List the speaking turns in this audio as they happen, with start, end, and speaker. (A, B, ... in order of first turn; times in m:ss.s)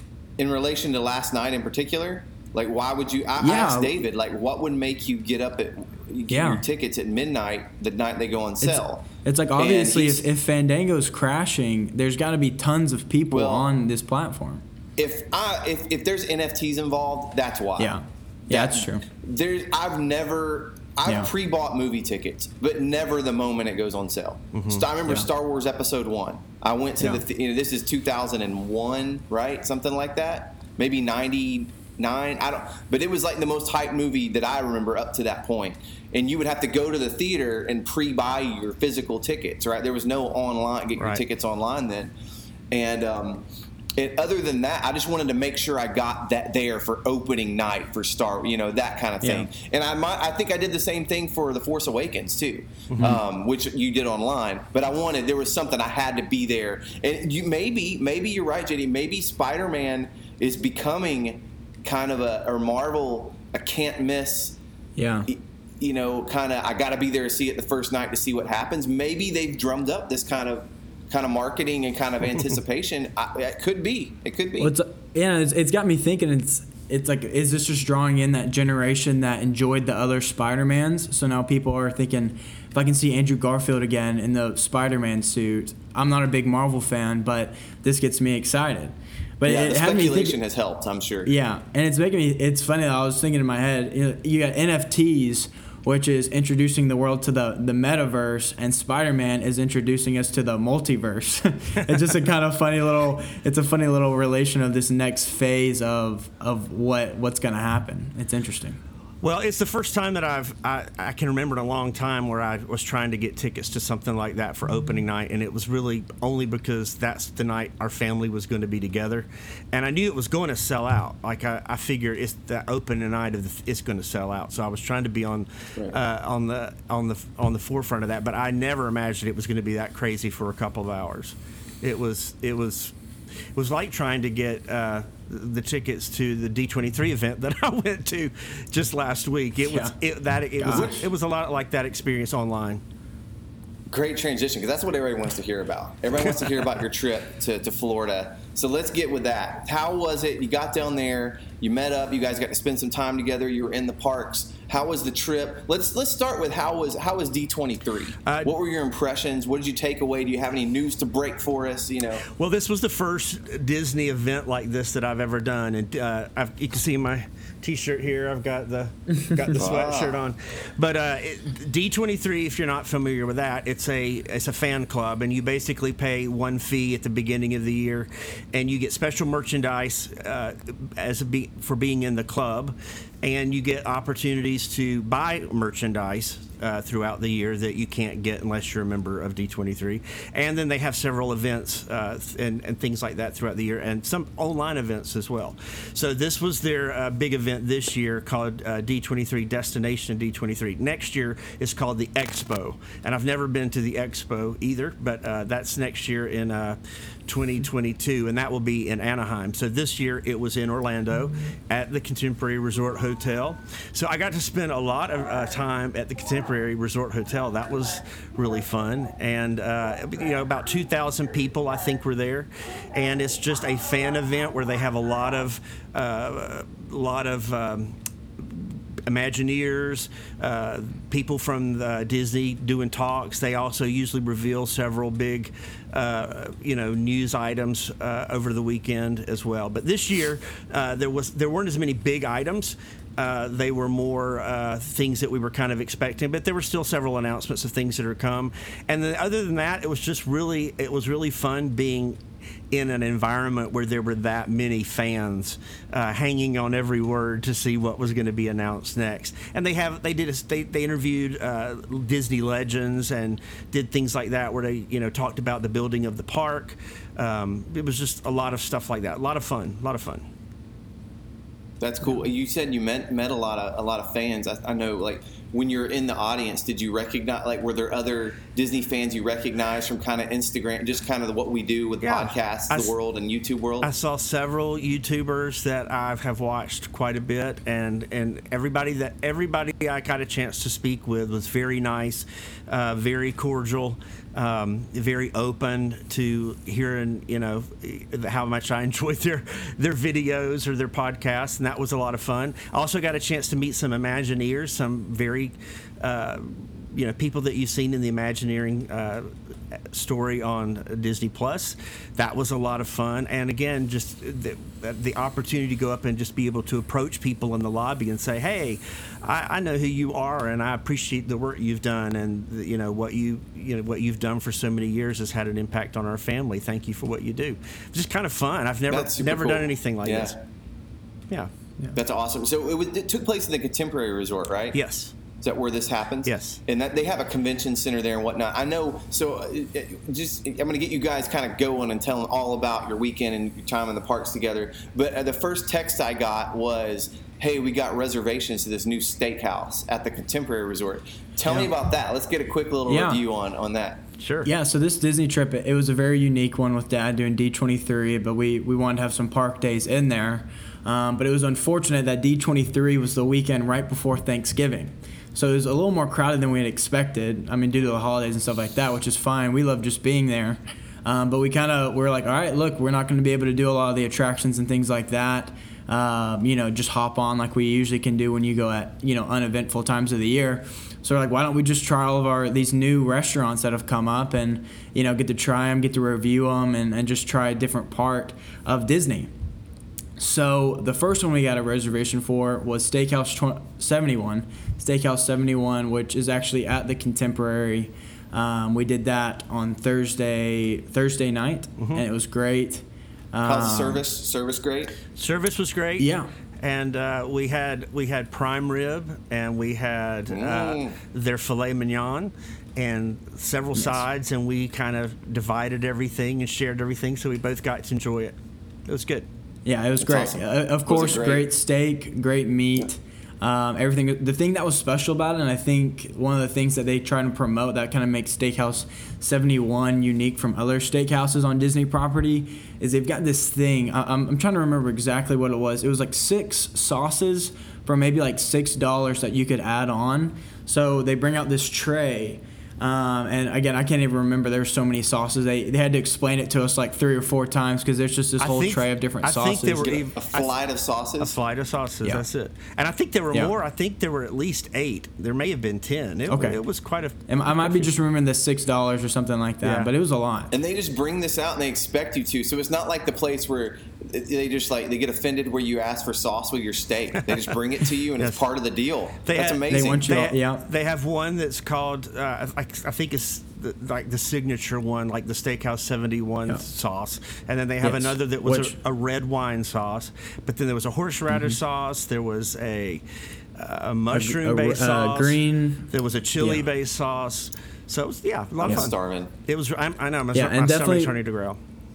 0:00.4-0:09.0 A
0:03.4-0:03.9 B
0:06.3-0:06.6 B
0:08.6-0:14.6 B
0:09.6-0:10.2 A
0:13.3-0:13.7 A
0:15.0-0:18.0 A
0:17.8-0:19.0 B
0:18.5-0:42.1 A
0:24.5-0:24.8 C
0:41.0-0:41.2 C
0:42.7-1:04.6 A
0:49.2-0:49.5 B
0:52.9-0:53.2 C
1:05.0-1:05.3 B
1:05.3-1:14.7 A
1:14.6-1:30.4 B
1:29.4-1:31.3 A
1:31.2-1:48.8 B
1:49.2-2:12.9 C
2:13.5-2:22.8 C
2:19.6-2:19.9 B
2:20.6-2:21.0 B
2:20.7-2:21.0 A
2:23.9-2:42.2 A
2:26.2-2:26.6 C
2:38.2-2:38.5 C
2:42.2-4:30.3 C
2:49.5-2:50.2 A
4:31.8-4:43.9 A
4:42.0-4:42.9 C
4:43.8-5:30.4 C
5:28.9-5:30.4 A
5:31.9-5:34.8 A
5:34.7-5:35.1 C
5:35.4-5:54.0 A
5:36.2-5:36.6 C
5:52.9-5:53.2 B
5:54.2-5:54.5 C
5:54.4-6:29.3 B
6:30.2-6:44.0 B
6:41.8-6:42.0 C
6:43.4-6:45.0 A
6:45.1-6:46.1 C
6:46.0-6:46.3 B
6:46.6-6:59.3 C
6:50.3-6:51.0 A
6:59.6-7:30.0 B
7:00.0-7:01.5 A
7:28.4-7:30.5 C
7:29.8-7:31.4 A
7:31.2-7:37.9 C
7:36.3-7:36.6 B
7:37.3-7:40.5 B
7:39.6-7:39.9 C
7:40.5-7:50.3 A
7:49.2-8:03.0 C
7:49.7-7:50.6 B
7:57.8-7:58.8 B
8:01.3-8:01.6 B
8:03.5-8:11.6 C
8:04.1-8:06.6 B
8:08.6-8:09.3 A
8:10.3-8:11.1 B